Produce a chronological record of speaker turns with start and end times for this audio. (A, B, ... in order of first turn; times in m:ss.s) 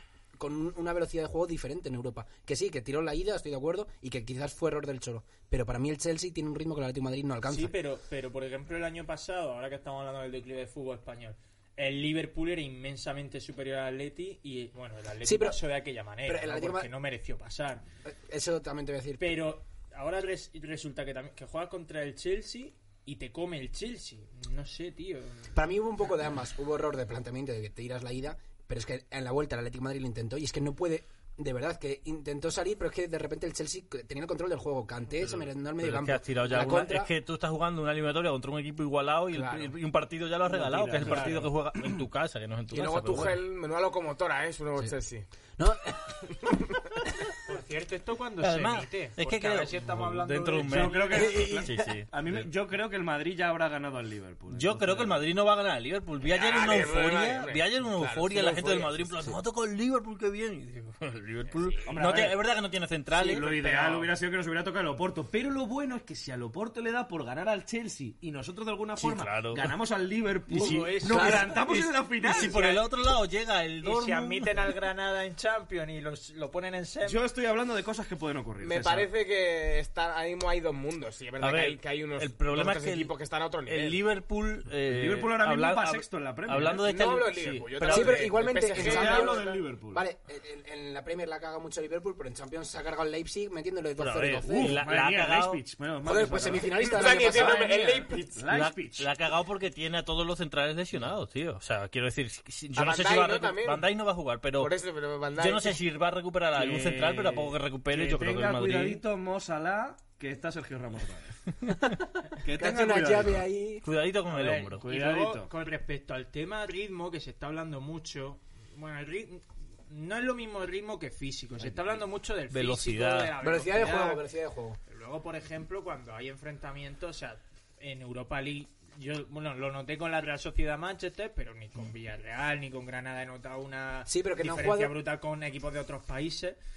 0:00.4-0:07.7 A
0:07.4-0:17.8 B
0:15.2-0:15.6 A
0:16.2-0:16.9 A
0:18.0-0:19.5 A
0:19.2-0:25.5 B
0:25.5-0:37.1 A
0:35.2-0:43.4 C
0:39.3-0:39.8 A
0:40.5-0:41.5 D
0:42.7-0:43.4 A
0:42.7-0:45.2 E
0:45.6-0:47.3 A
0:46.3-0:46.8 E
0:47.4-0:51.4 B
0:48.4-0:52.4 C
0:50.6-0:55.2 D
0:51.1-0:52.0 A
0:54.5-1:03.8 C
0:56.2-0:59.1 E
1:01.8-1:02.4 D
1:03.2-1:12.6 D
1:03.4-1:04.1 B
1:09.0-1:09.7 C
1:10.5-1:12.9 B
1:10.5-1:11.6 C
1:11.1-1:11.5 A
1:12.2-1:14.6 C
1:13.8-1:17.2 B
1:17.0-1:19.1 D
1:18.6-1:24.0 E
1:21.4-1:23.1 C
1:23.7-1:28.4 C
1:24.9-1:26.8 D
1:26.7-1:29.6 E
1:27.8-1:34.8 A
1:28.7-1:30.0 D
1:34.0-1:35.6 C
1:34.4-1:37.4 D
1:36.0-1:38.2 A
1:36.7-1:38.4 E
1:38.4-1:39.1 D
1:38.5-1:44.7 C
1:42.7-1:43.9 E
1:44.6-1:45.8 E
1:45.4-1:49.0 C
1:46.5-1:51.4 D
1:52.4-1:53.5 D
1:52.5-1:53.8 A
1:53.8-1:54.8 C
1:54.3-2:04.2 B
1:54.8-1:55.5 D
2:01.6-2:02.0 D
2:02.5-2:03.3 C
2:03.4-2:04.8 A
2:04.9-2:16.6 B
2:14.0-2:14.9 A